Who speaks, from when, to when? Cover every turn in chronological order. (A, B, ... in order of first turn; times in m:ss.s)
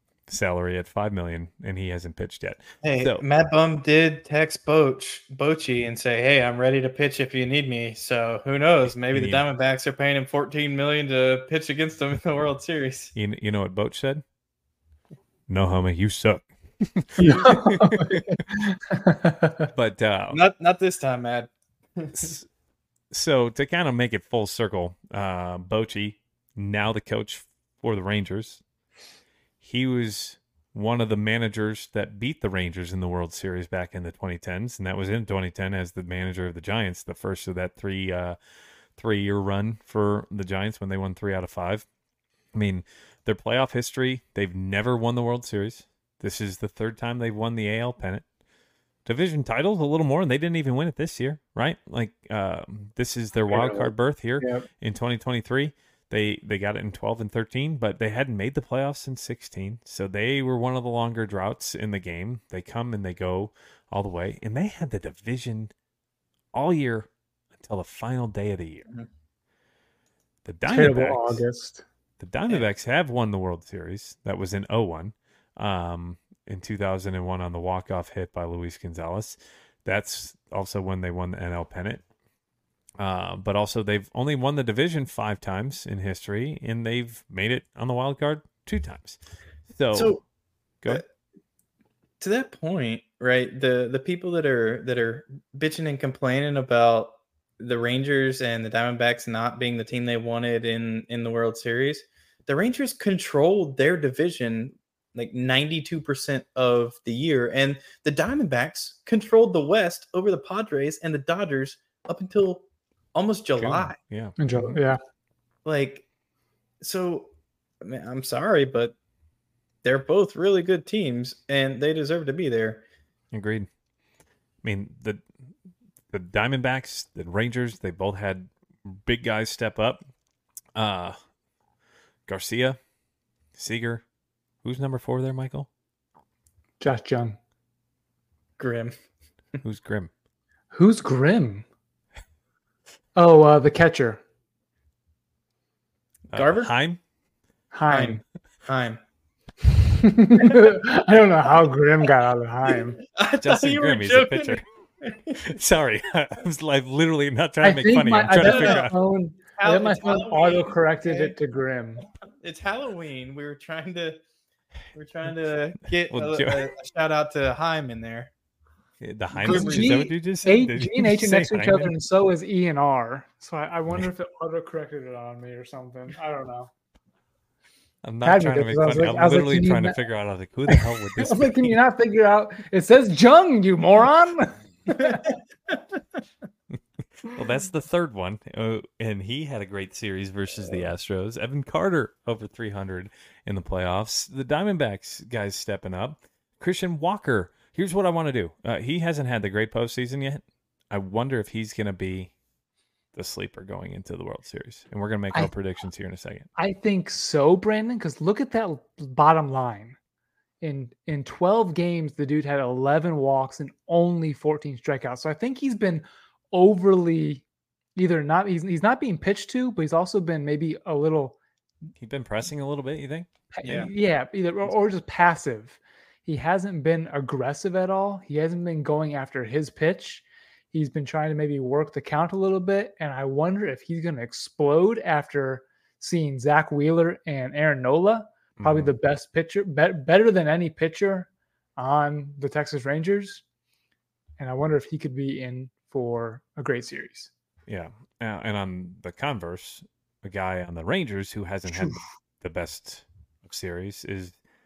0:00.3-0:03.2 A
0:02.8-0:13.1 B
0:08.8-0:09.4 A
0:13.1-0:14.2 A
0:15.5-0:18.3 A
0:17.2-0:19.7 C
0:19.7-0:20.4 A
0:20.3-0:22.3 B
0:22.2-0:22.5 A
0:23.1-0:28.6 A
0:29.6-0:38.4 A
0:39.0-0:41.8 A
0:42.5-0:48.2 A
0:49.0-1:05.7 A
0:53.5-0:54.6 B
1:06.5-1:08.9 A
1:10.4-1:11.4 A
1:10.7-1:11.8 C
1:12.2-1:22.0 A
1:23.0-1:30.2 A
1:29.9-1:30.2 B
1:32.2-1:54.0 B
1:53.6-1:54.4 A
1:54.4-1:55.0 C
1:55.6-1:56.0 B
1:56.8-1:59.0 B
1:59.8-2:02.8 B
2:03.3-2:03.7 A
2:04.6-2:05.2 A
2:06.1-2:10.0 A
2:10.8-2:11.2 A
2:12.3-2:12.8 A
2:13.6-2:14.0 A
2:14.6-2:15.7 A
2:16.8-2:17.4 C
2:18.6-2:18.9 B
2:19.6-2:20.1 A
2:20.7-2:21.6 C
2:23.1-2:24.2 C
2:26.3-2:27.0 A
2:26.3-2:26.7 B
2:27.7-2:28.2 C
2:27.9-2:29.0 B
2:29.9-2:33.0 C
2:33.1-2:35.5 B
2:33.4-2:34.6 A
2:35.4-2:38.9 A
2:37.6-2:42.0 C
2:38.4-2:38.9 B
2:39.6-2:41.3 B
2:42.4-2:44.2 B
2:44.9-2:48.3 B
2:46.1-2:46.7 A
2:49.0-2:51.9 A
2:49.4-2:50.1 B
2:49.4-2:56.7 C
2:58.0-3:01.7 A
2:58.2-3:00.0 C
3:00.7-3:05.2 C
3:07.2-3:22.3 A
3:23.1-3:26.5 A
3:26.6-3:30.0 C
3:30.6-3:37.4 C
3:38.0-3:41.4 C
3:42.0-3:43.3 A
3:43.5-4:03.4 C
3:43.6-3:43.9 B
3:58.6-3:58.9 A
4:04.4-4:07.3 C
4:07.7-4:14.4 A